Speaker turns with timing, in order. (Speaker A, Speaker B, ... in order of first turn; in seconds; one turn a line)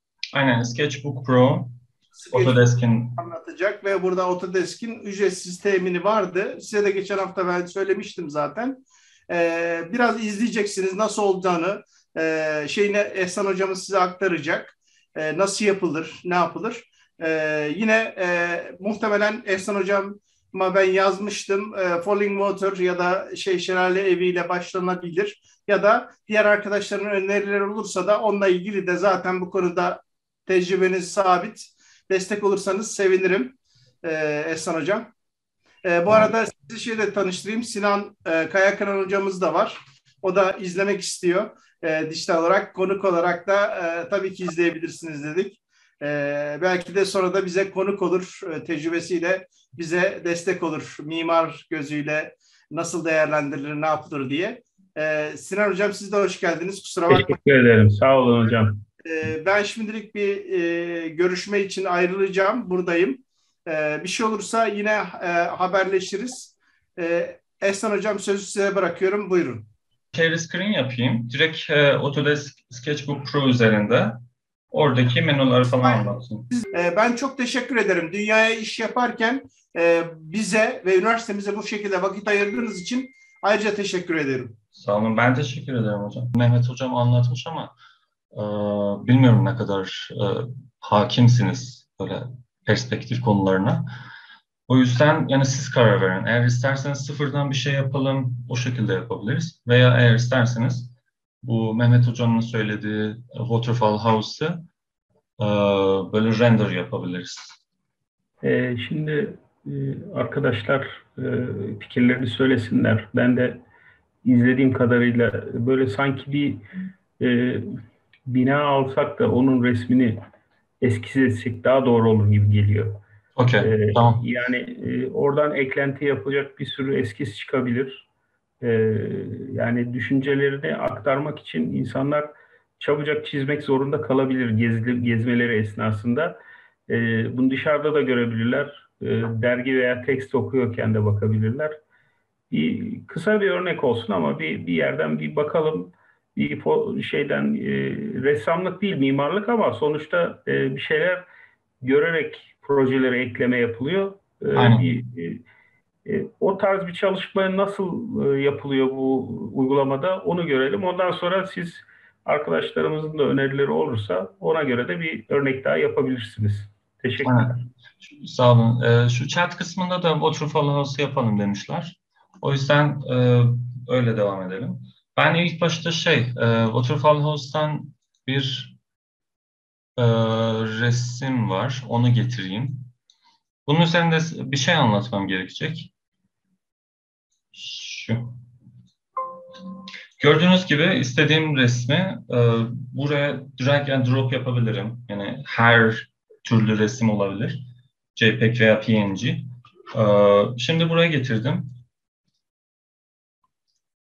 Speaker A: 0.3-1.7
Speaker B: 2.2-2.6
Speaker A: 2.3-3.2
Speaker B: 3.2-35.1
Speaker B: 35.8-57.3
Speaker C: 57.1-58.8
Speaker B: 59.0-69.7
Speaker A: 70.1-74.2
Speaker A: 74.7-76.5
Speaker B: 76.5-84.6
Speaker A: 84.7-87.7
Speaker A: 88.3-93.8
Speaker A: 94.7-104.6
Speaker A: 105.4-107.6
Speaker C: 108.4-113.6
Speaker C: 114.2-116.6
Speaker C: 117.2-120.2
Speaker C: 120.8-123.0
Speaker A: 123.4-124.2
Speaker C: 123.6-128.1
Speaker C: 128.6-136.3
Speaker C: 136.9-141.8
Speaker C: 142.5-151.2
Speaker C: 151.8-155.4
Speaker A: 154.5-154.9
Speaker C: 156.1-167.6
Speaker A: 167.2-167.5
Speaker A: 168.0-178.8
Speaker A: 180.0-182.9
Speaker A: 183.7-185.9
Speaker A: 187.5-188.3
Speaker A: 190.2-197.6
Speaker A: 198.1-201.7